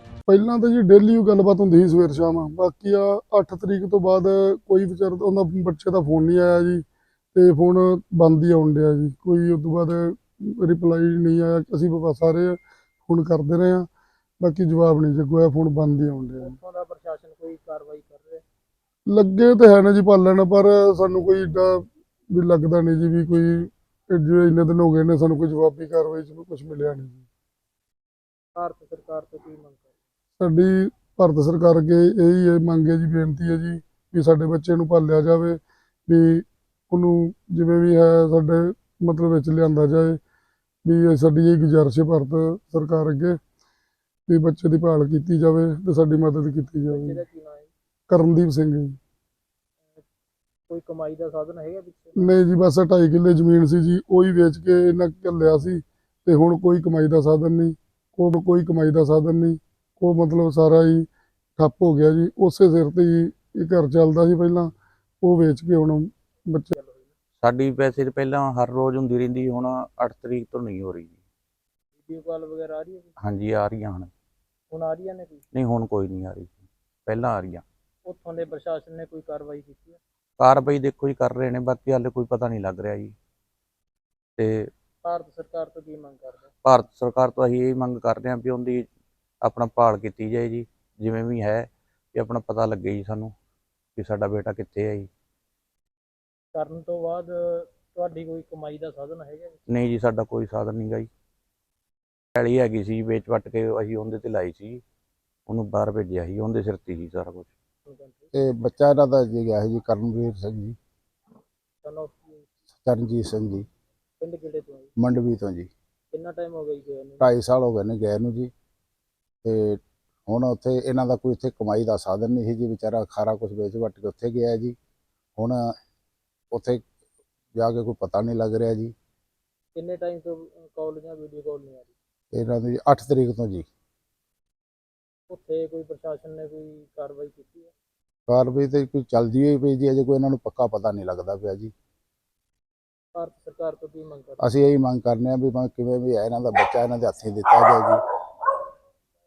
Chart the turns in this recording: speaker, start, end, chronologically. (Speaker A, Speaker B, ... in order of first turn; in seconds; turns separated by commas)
Speaker A: 0.3-13.9, Speaker A: 14.4-16.6, Speaker B: 16.4-18.4, Speaker A: 19.1-27.2, Speaker B: 28.5-29.9, Speaker A: 30.4-40.2, Speaker A: 40.8-43.4, Speaker A: 44.3-47.2, Speaker B: 46.9-47.7, Speaker A: 48.1-49.0, Speaker B: 50.7-52.3, Speaker A: 52.1-66.7, Speaker B: 66.7-67.1, Speaker C: 67.4-71.2, Speaker B: 72.0-73.1, Speaker C: 73.2-74.1, Speaker B: 74.7-75.5, Speaker C: 75.5-77.6, Speaker B: 78.0-80.0, Speaker C: 80.4-83.1, Speaker C: 84.4-84.7, Speaker B: 85.0-86.5, Speaker C: 86.6-88.9, Speaker C: 89.4-93.3, Speaker C: 94.0-95.1, Speaker B: 96.5-99.7, Speaker C: 99.7-101.1, Speaker C: 102.3-104.8, Speaker C: 105.5-107.5, Speaker B: 107.8-108.3, Speaker D: 108.3-110.8, Speaker B: 111.8-112.5, Speaker D: 112.8-113.7, Speaker B: 114.2-114.9, Speaker D: 115.0-115.7, Speaker B: 116.1-117.3, Speaker D: 117.2-118.5, Speaker D: 119.4-124.8, Speaker D: 125.4-125.7, Speaker D: 126.5-126.8, Speaker D: 127.5-128.9, Speaker B: 129.7-131.9, Speaker D: 132.3-133.7, Speaker B: 135.3-137.7, Speaker D: 138.3-141.7, Speaker B: 143.1-144.4, Speaker D: 144.4-148.0